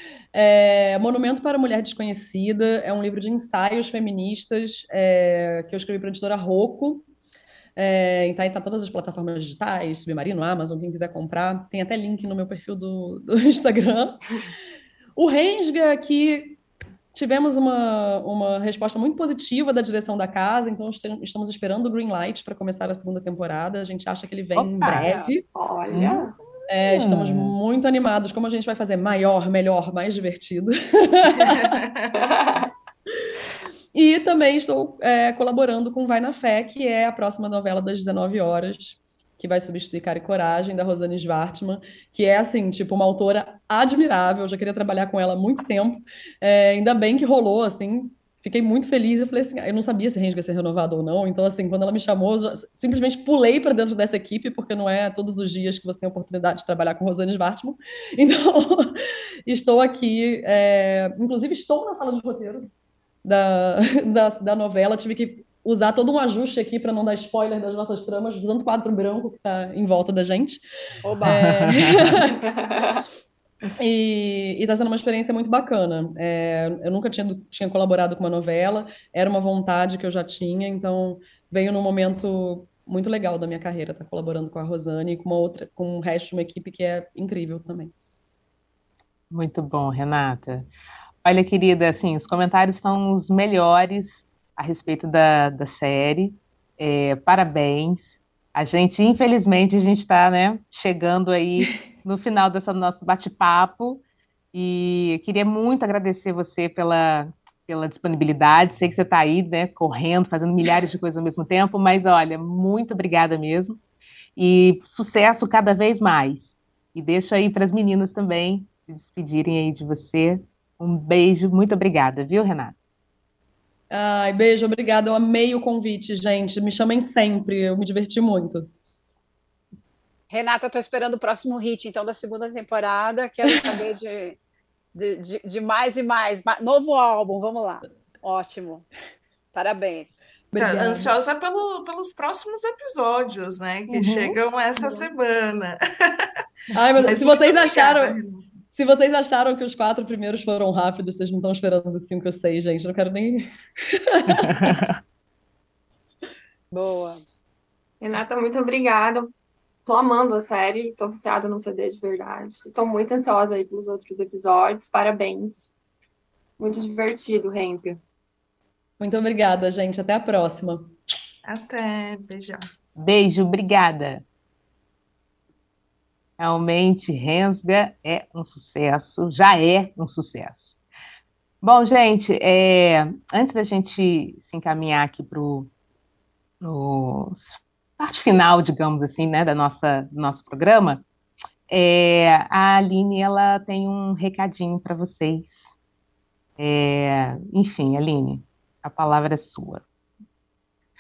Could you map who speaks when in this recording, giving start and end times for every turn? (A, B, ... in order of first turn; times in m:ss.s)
0:00.3-0:07.0 A
0:07.8-0:14.2 A
0:15.2-0:16.6 A
0:17.1-0:25.4 A
0:24.6-0:25.1 B
0:25.0-0:25.3 C
0:25.5-0:26.3 D
0:25.9-0:26.3 B
0:26.7-0:31.8 A
0:26.9-0:27.5 B
0:32.1-0:32.7 D
0:33.9-0:59.0 A
0:59.5-1:02.7 A
1:03.2-1:10.6 A
1:11.0-1:11.4 C
1:11.2-1:12.1 B
1:11.3-1:12.4 A
1:12.6-1:13.0 D
1:13.8-1:27.9 A
1:29.3-1:30.7 B
1:31.2-1:44.0 B
1:44.5-1:53.8 B
1:54.4-2:02.8 B
2:03.9-2:08.7 A
2:10.3-2:14.4 C
2:15.0-2:18.9 C
2:19.5-2:20.2 C
2:20.5-2:21.1 A
2:20.6-2:26.3 E
2:23.9-2:24.4 B
2:26.7-2:28.2 A
2:27.0-2:28.6 E
2:28.7-2:34.2 A
2:34.4-2:34.9 B
2:36.7-2:37.2 C
2:38.0-2:39.3 D
2:39.8-2:45.7 D
2:46.6-2:48.0 D
2:49.0-2:50.9 A
2:51.4-2:52.6 E
2:53.0-2:54.2 B
2:56.4-3:00.8 B
3:01.6-3:05.7 B
3:06.6-3:11.0 B
3:11.7-3:15.8 B
3:16.6-3:19.8 B